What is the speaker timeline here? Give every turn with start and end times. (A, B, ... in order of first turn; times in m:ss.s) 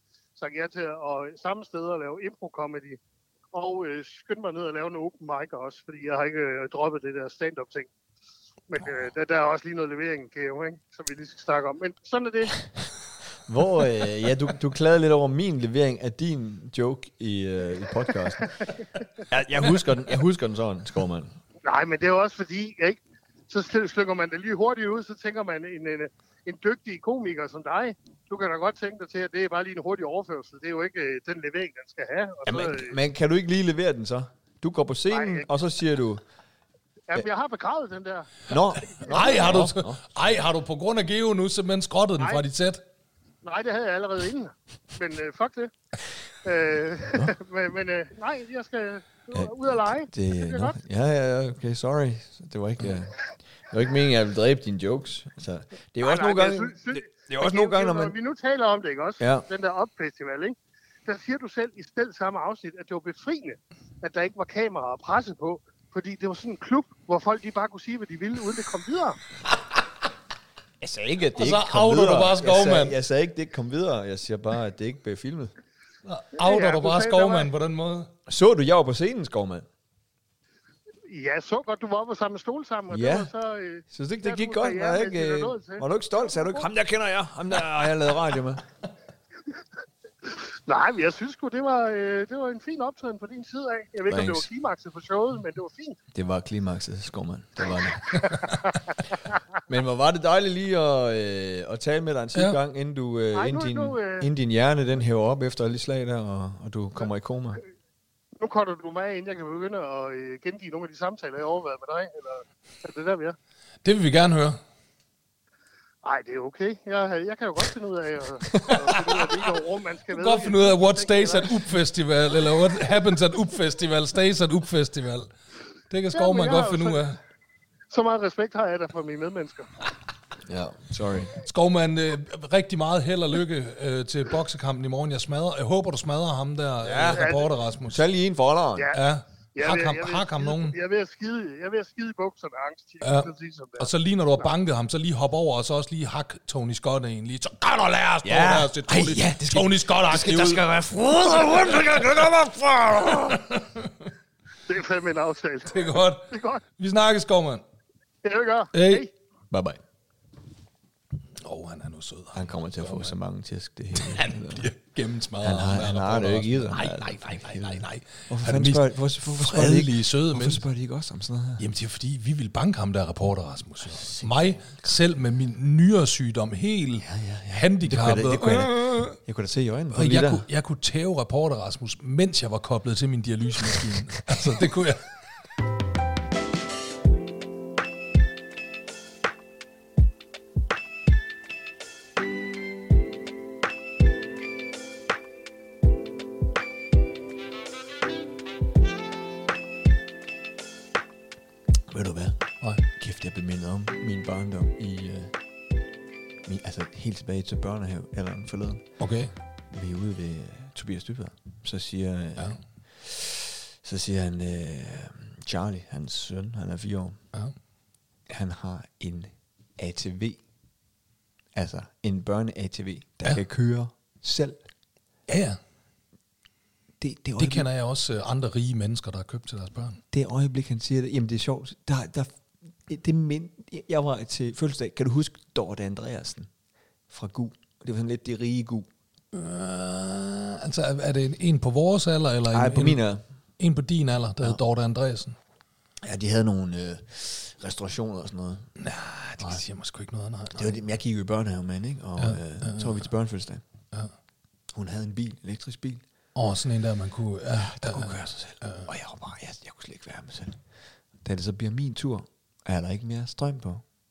0:00.4-0:03.0 A
0:03.5-0:07.9 A
0:08.7-0:12.6 A
0:13.5-0:18.5 B
0:18.4-0:18.8 A
0:19.3-0:21.4 B
0:21.6-0:32.9 A
0:32.5-0:36.2 B
0:35.1-0:35.5 A
0:37.1-0:39.4 A
0:38.5-0:40.0 B
0:39.1-0:42.8 C
0:43.4-0:45.7 A
0:46.4-0:50.8 A
0:49.3-0:58.2 B
0:56.0-1:09.2 A
0:59.2-0:59.5 B
1:10.8-1:15.5 B
1:11.4-1:13.0 C
1:16.1-1:18.1 C
1:16.4-1:17.5 A
1:18.3-1:19.7 B
1:21.1-1:26.7 A
1:22.9-1:23.3 B
1:23.9-1:28.6 B
1:30.2-1:36.0 A
1:34.1-1:34.5 B
1:36.1-1:38.2 B
1:38.1-1:38.8 A
1:39.7-1:47.6 B
1:43.3-1:44.3 A
1:48.4-1:53.4 A
1:53.8-1:54.6 C
1:56.0-2:01.6 A
1:58.9-1:59.1 C
2:00.1-2:05.3 C
2:05.9-2:07.2 C
2:06.1-2:07.1 A
2:07.9-2:09.7 A
2:10.5-2:11.4 B
2:11.4-2:18.0 C
2:16.8-2:17.3 B
2:17.1-2:17.5 A
2:17.9-2:18.9 B
2:18.9-2:20.8 C
2:19.6-2:23.9 A
2:23.0-2:30.6 C
2:28.2-2:33.4 B
2:31.4-2:32.3 C
2:33.0-2:33.9 C
2:34.7-2:36.6 A
2:35.7-2:37.6 C
2:38.2-2:39.1 A
2:38.7-2:39.0 C
2:39.5-2:39.8 B
2:41.4-2:43.2 C
2:42.3-2:44.7 B
2:44.0-2:50.6 C
2:45.4-2:51.6 B
2:51.6-2:59.2 C
2:53.8-2:54.9 B
2:57.0-3:00.5 B
2:59.9-3:05.1 C
3:21.9-3:25.3 B
3:26.4-3:28.8 B
3:29.0-3:29.3 C
3:29.7-3:37.2 B
3:38.3-3:40.4 B
3:41.6-3:44.6 B
3:45.3-3:45.6 C
3:47.0-3:47.7 B
3:47.4-3:50.0 C
3:50.1-3:52.3 B
3:52.9-3:56.5 B
3:57.1-3:58.9 B
3:59.3-4:03.0 C
4:02.5-4:03.2 B
4:03.6-4:05.4 C
4:06.0-4:08.7 B
4:08.8-4:10.7 C
4:10.6-4:13.6 B
4:12.2-4:13.0 C
4:14.7-4:16.0 B
4:16.4-4:18.9 C
4:17.6-4:20.6 B
4:21.2-4:23.8 B